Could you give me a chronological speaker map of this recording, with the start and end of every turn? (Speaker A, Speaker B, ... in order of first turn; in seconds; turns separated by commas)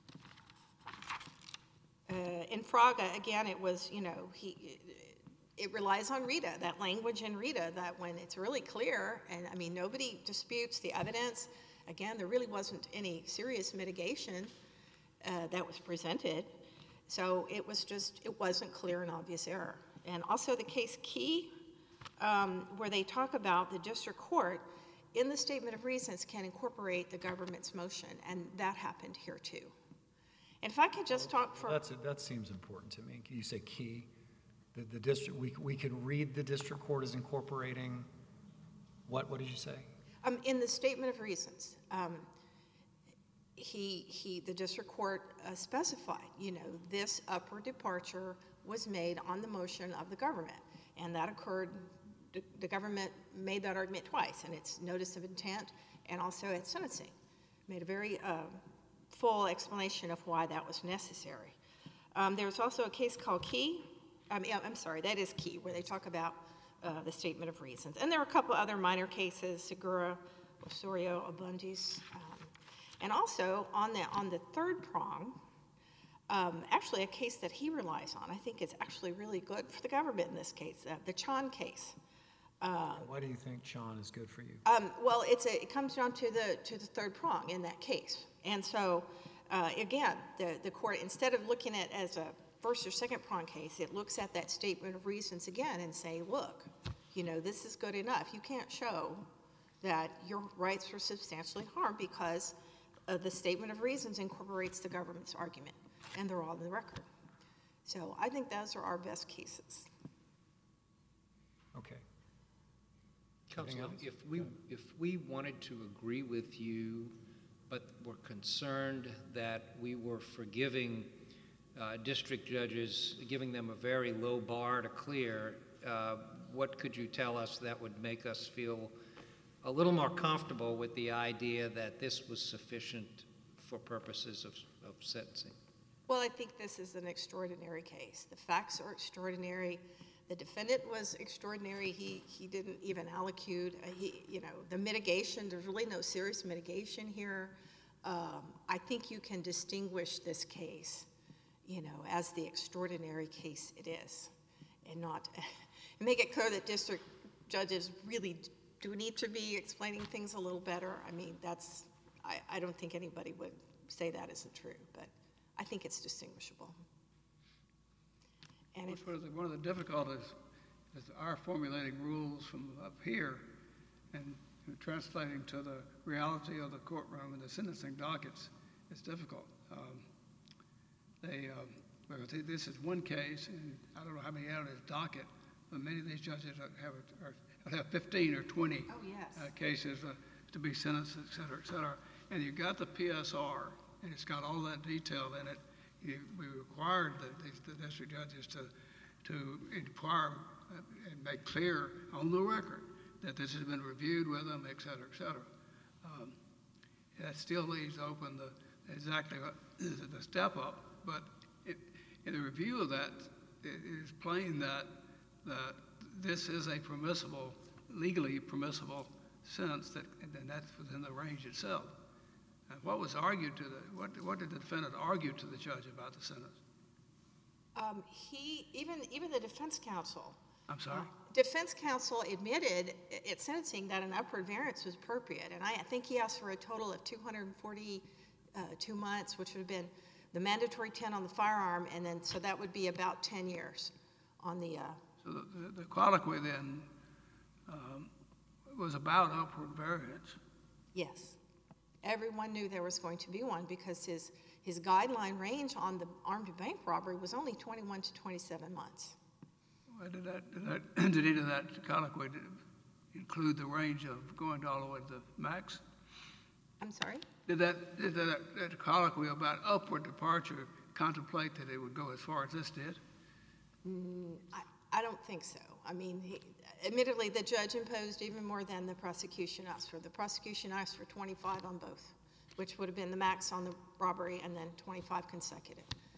Speaker A: 2.1-14.5, Speaker A: 15.2-16.6, Speaker A: 17.1-21.5, Speaker A: 22.2-29.7, Speaker A: 30.6-31.8, Speaker B: 31.1-34.1, Speaker B: 34.7-38.1, Speaker B: 39.1-39.9, Speaker A: 40.2-42.3, Speaker A: 43.6-57.1, Speaker A: 57.7-61.6, Speaker A: 62.1-75.4, Speaker A: 76.3-82.0, Speaker A: 82.6-83.1, Speaker B: 82.9-84.6, Speaker A: 84.7-99.3, Speaker A: 99.8-102.5, Speaker A: 103.1-107.1, Speaker A: 107.8-109.9, Speaker B: 111.8-112.0, Speaker C: 113.5-117.1, Speaker B: 113.6-114.5, Speaker C: 117.7-121.1, Speaker C: 121.8-128.9, Speaker C: 129.6-135.5, Speaker A: 136.1-151.1, Speaker A: 151.7-154.3, Speaker A: 154.8-166.8, Speaker A: 168.8-169.1, Speaker D: 168.9-170.4, Speaker D: 170.9-173.5, Speaker D: 174.1-180.1, Speaker D: 181.2-198.7, Speaker A: 188.9-189.5, Speaker D: 199.2-205.5, Speaker D: 206.0-206.3, Speaker D: 207.2-221.9, Speaker D: 222.7-226.6, Speaker A: 227.8-230.4, Speaker D: 230.7-231.1, Speaker A: 230.9-245.0, Speaker D: 245.2-246.9, Speaker D: 247.7-248.1, Speaker D: 248.7-250.4, Speaker A: 250.9-251.4, Speaker A: 252.0-259.2, Speaker D: 259.9-262.6, Speaker D: 263.1-265.8, Speaker A: 266.8-267.3, Speaker D: 267.5-273.0, Speaker A: 273.8-285.9